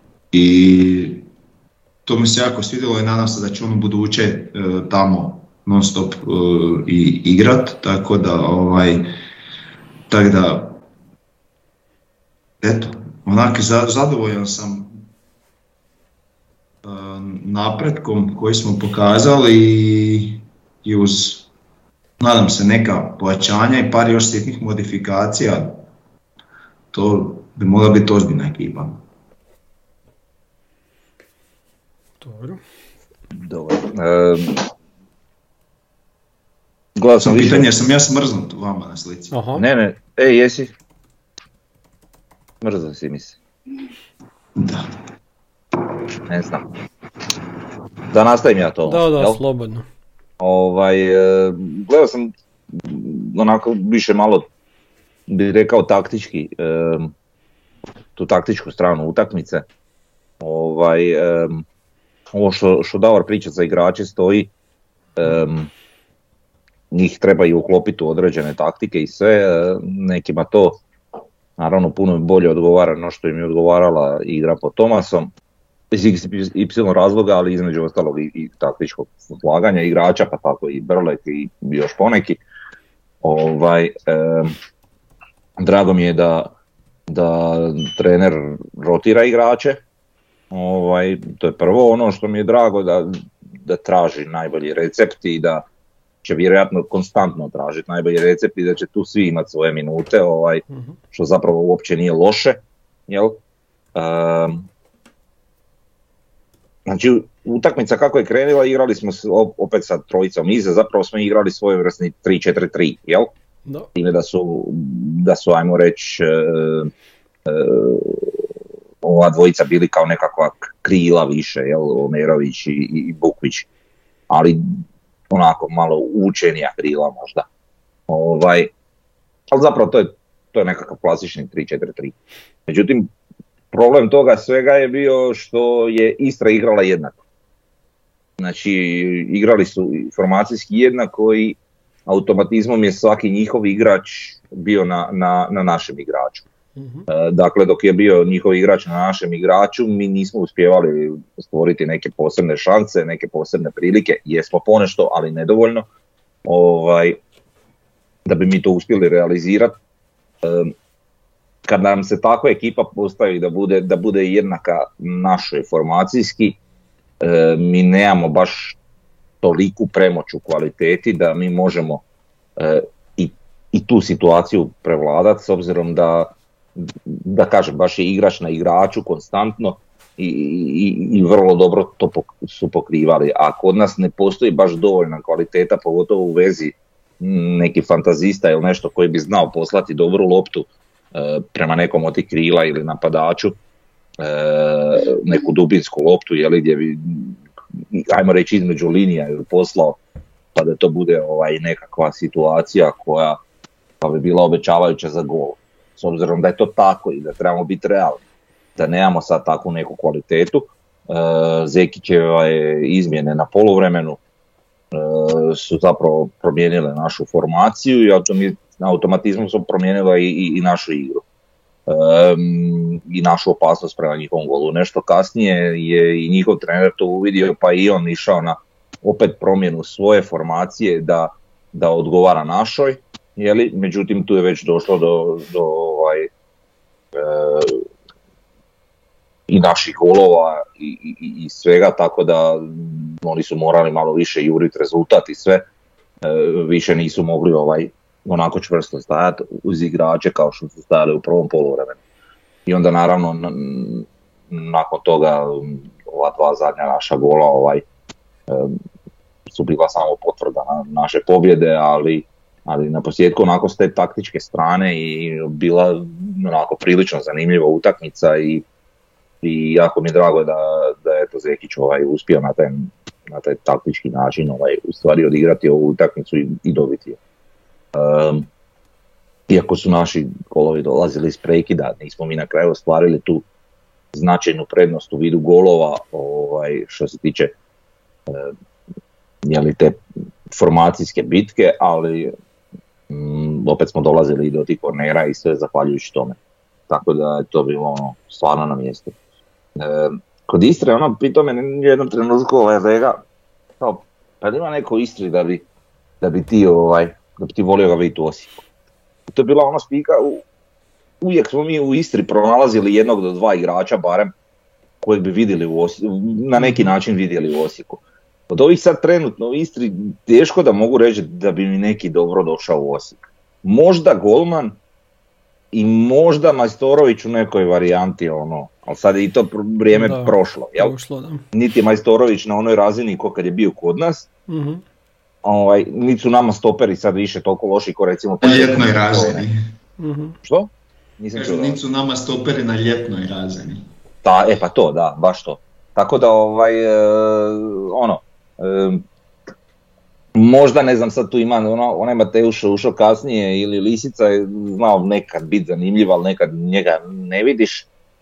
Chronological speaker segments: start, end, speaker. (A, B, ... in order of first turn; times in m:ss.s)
0:00.3-0:01.3 A
0:02.0-0:09.1 A
0:10.1-0:10.8 A
0:12.6-0:15.0 A
0:16.8-0:21.5 A
0:22.2-0:25.8 A
0:26.9-0:29.0 A
0:32.2-0:32.6 B
0:33.4-0:34.6 C
0:37.0-0:37.7 C
0:37.2-0:39.4 A
0:39.3-0:39.6 B
0:39.5-0:40.7 C
0:42.6-0:43.4 C
0:44.6-0:44.9 A
0:46.3-0:46.6 C
0:48.1-0:49.4 C
0:48.8-0:49.8 B
0:50.4-0:54.5 C
0:55.3-0:57.1 C
0:58.2-0:59.6 C
1:00.4-1:01.6 C
1:02.3-1:04.5 C
1:05.2-1:05.7 C
1:06.9-1:10.8 C
1:11.6-1:15.3 C
1:15.9-1:22.4 C
1:23.2-1:24.6 C
1:25.6-1:26.5 C
1:27.1-1:29.8 C
1:30.5-1:35.6 C
1:36.2-1:43.4 C
1:43.9-1:44.7 C
1:46.9-1:53.3 C
1:54.0-1:56.9 C
1:57.4-1:58.5 C
1:59.0-2:03.7 C
2:04.3-2:07.5 C
2:08.1-2:08.7 C
2:09.5-2:12.2 C
2:12.7-2:13.1 C
2:13.7-2:17.2 C
2:18.4-2:26.4 C
2:26.8-2:27.1 B
2:27.1-2:35.8 C
2:36.4-2:37.2 C
2:38.2-2:39.8 C
2:40.4-2:40.7 C
2:41.6-2:46.6 C
2:47.2-2:48.8 C
2:49.4-2:52.0 C
2:52.6-3:13.6 C
3:14.2-3:20.0 C
3:20.5-3:23.4 C
3:24.0-3:28.2 C
3:28.8-3:34.2 C
3:34.9-3:41.2 C
3:41.9-3:56.3 C
3:57.1-3:57.8 C
3:59.5-4:05.7 C
4:06.2-4:12.0 C
4:12.6-4:17.8 C
4:18.5-4:18.8 C
4:19.5-4:28.6 C
4:29.4-4:37.2 C
4:37.9-4:38.5 C
4:39.5-4:43.4 C
4:44.1-4:47.6 C
4:48.3-4:48.5 C
4:49.4-4:52.3 C
4:53.1-4:56.4 C
4:56.9-4:59.1 C
4:59.8-5:03.2 C
5:03.8-5:05.6 C
5:06.2-5:08.6 C
5:09.3-5:10.4 C
5:11.2-5:14.3 C
5:15.0-5:24.8 C
5:16.6-5:16.9 B
5:25.7-5:30.9 C
5:29.9-5:31.4 B
5:31.5-5:34.3 C
5:34.5-5:34.8 B
5:35.4-5:39.4 C
5:38.4-5:39.5 A
5:40.0-5:40.4 B
5:40.4-5:41.8 C
5:41.4-5:43.8 A
5:44.2-5:49.0 C
5:50.3-5:57.9 C